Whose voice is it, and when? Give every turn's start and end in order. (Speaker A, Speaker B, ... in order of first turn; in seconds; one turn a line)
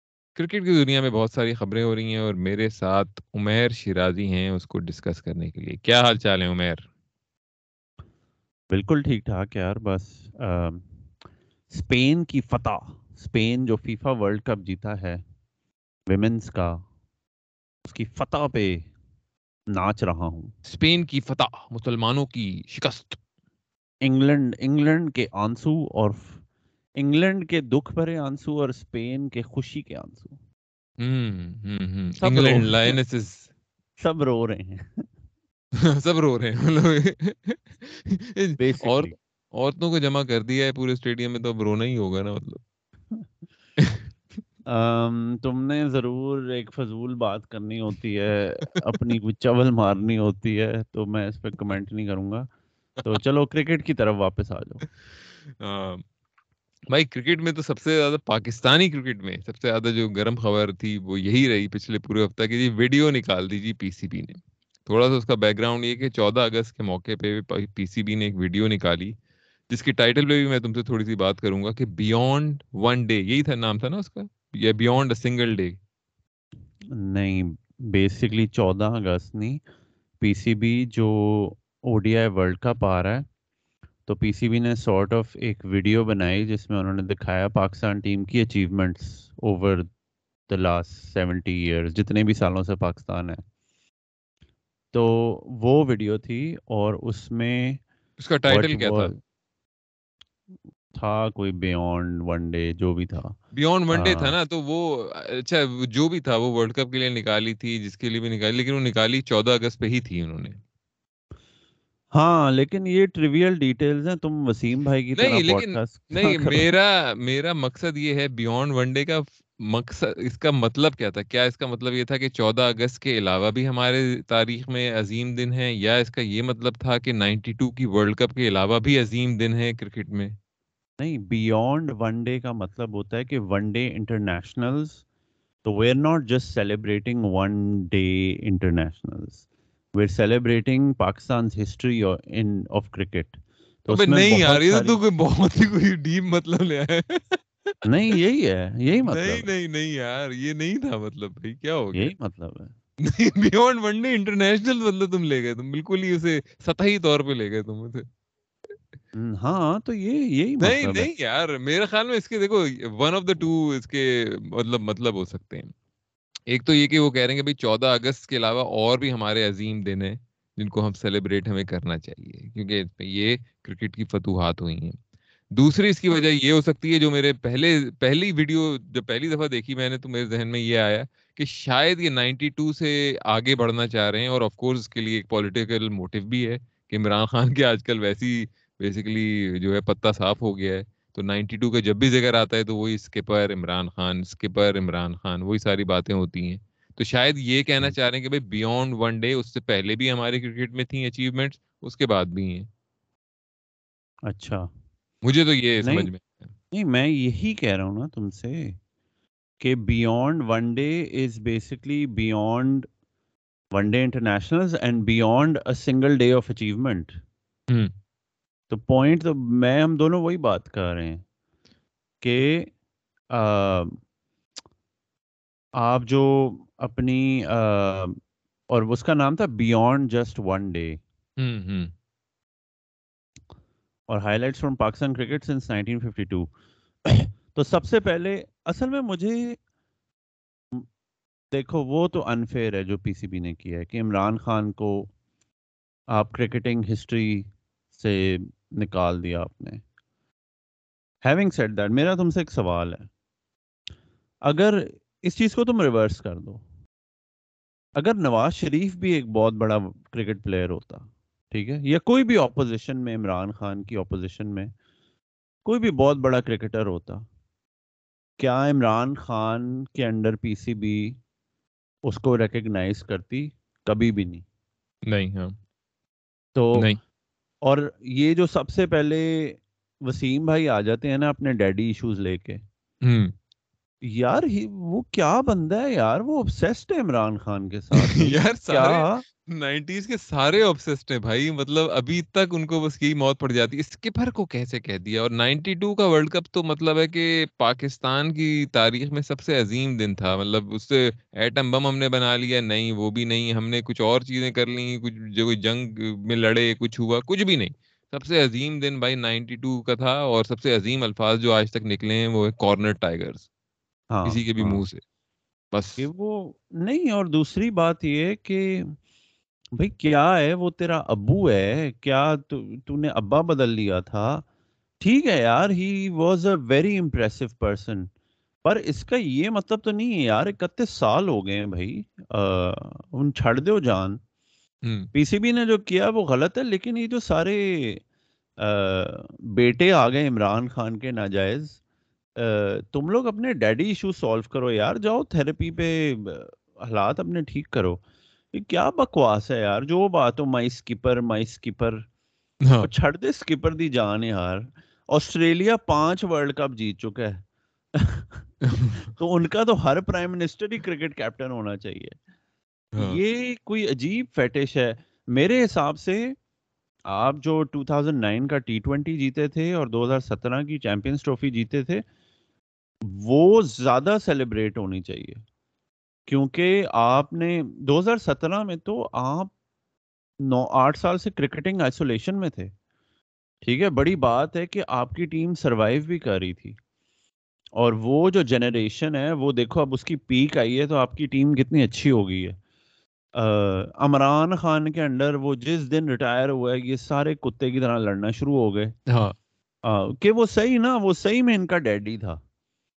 Speaker A: 0.4-6.8
Speaker B: 8.7-10.9
Speaker B: 11.7-15.2
Speaker B: 16.1-16.8
Speaker B: 17.9-18.9
Speaker B: 19.7-20.5
Speaker A: 20.7-23.2
Speaker B: 24.0-26.4
Speaker B: 27.0-30.4
Speaker A: 31.0-33.5
Speaker B: 32.2-33.0
Speaker B: 34.0-35.1
Speaker A: 35.8-42.6
Speaker B: 38.6-39.2
Speaker A: 43.8-44.1
Speaker B: 44.7-52.5
Speaker B: 53.0-54.9
Speaker A: 55.4-56.0
Speaker A: 56.9-69.2
Speaker A: 69.7-75.8
Speaker B: 76.9-79.6
Speaker B: 80.2-83.3
Speaker B: 84.1-89.9
Speaker B: 90.5-93.4
Speaker B: 94.9-97.8
Speaker A: 98.2-99.1
Speaker B: 98.5-99.2
Speaker B: 101.0-103.4
Speaker A: 103.5-110.6
Speaker B: 103.9-104.3
Speaker B: 112.1-116.7
Speaker A: 115.2-130.3
Speaker B: 131.0-135.0
Speaker B: 135.6-139.4
Speaker B: 139.9-145.0
Speaker A: 143.9-147.8
Speaker B: 147.8-149.5
Speaker A: 149.1-152.1
Speaker B: 151.9-152.7
Speaker A: 153.0-158.1
Speaker B: 159.2-161.1
Speaker A: 160.6-165.7
Speaker A: 166.5-175.0
Speaker A: 175.5-202.7
Speaker B: 204.3-204.7
Speaker A: 205.2-206.5
Speaker B: 205.8-206.1
Speaker B: 206.7-208.8
Speaker B: 209.6-212.9
Speaker B: 213.7-217.2
Speaker B: 218.7-221.2
Speaker B: 222.2-222.7
Speaker B: 223.3-224.0
Speaker B: 225.8-231.0
Speaker A: 231.4-231.9
Speaker B: 234.1-236.5
Speaker B: 237.1-239.6
Speaker B: 241.5-245.1
Speaker B: 246.1-249.8
Speaker B: 251.2-253.1
Speaker B: 254.4-256.6
Speaker B: 258.0-264.7
Speaker B: 265.6-267.3
Speaker B: 268.4-271.2
Speaker B: 272.1-274.4
Speaker A: 275.1-275.6
Speaker B: 276.6-276.9
Speaker A: 276.7-277.0
Speaker B: 277.6-282.6
Speaker A: 283.0-283.4
Speaker B: 284.0-289.2
Speaker A: 288.0-313.5
Speaker B: 314.1-314.8
Speaker A: 314.2-315.0
Speaker A: 315.7-316.0
Speaker B: 316.0-319.0
Speaker B: 319.8-324.5
Speaker B: 325.0-328.1
Speaker B: 328.6-334.2
Speaker A: 334.8-335.1
Speaker B: 335.1-338.0
Speaker B: 338.6-341.8
Speaker B: 342.4-352.1
Speaker A: 352.6-352.9
Speaker B: 352.8-357.4
Speaker B: 358.0-358.6
Speaker A: 358.7-359.1
Speaker B: 359.2-362.2
Speaker B: 363.0-366.4
Speaker B: 367.1-372.1
Speaker B: 373.0-375.4
Speaker B: 376.3-379.5
Speaker B: 380.4-382.7
Speaker B: 383.6-386.8
Speaker B: 387.8-392.6
Speaker B: 393.4-399.0
Speaker A: 399.1-399.4
Speaker B: 399.8-402.4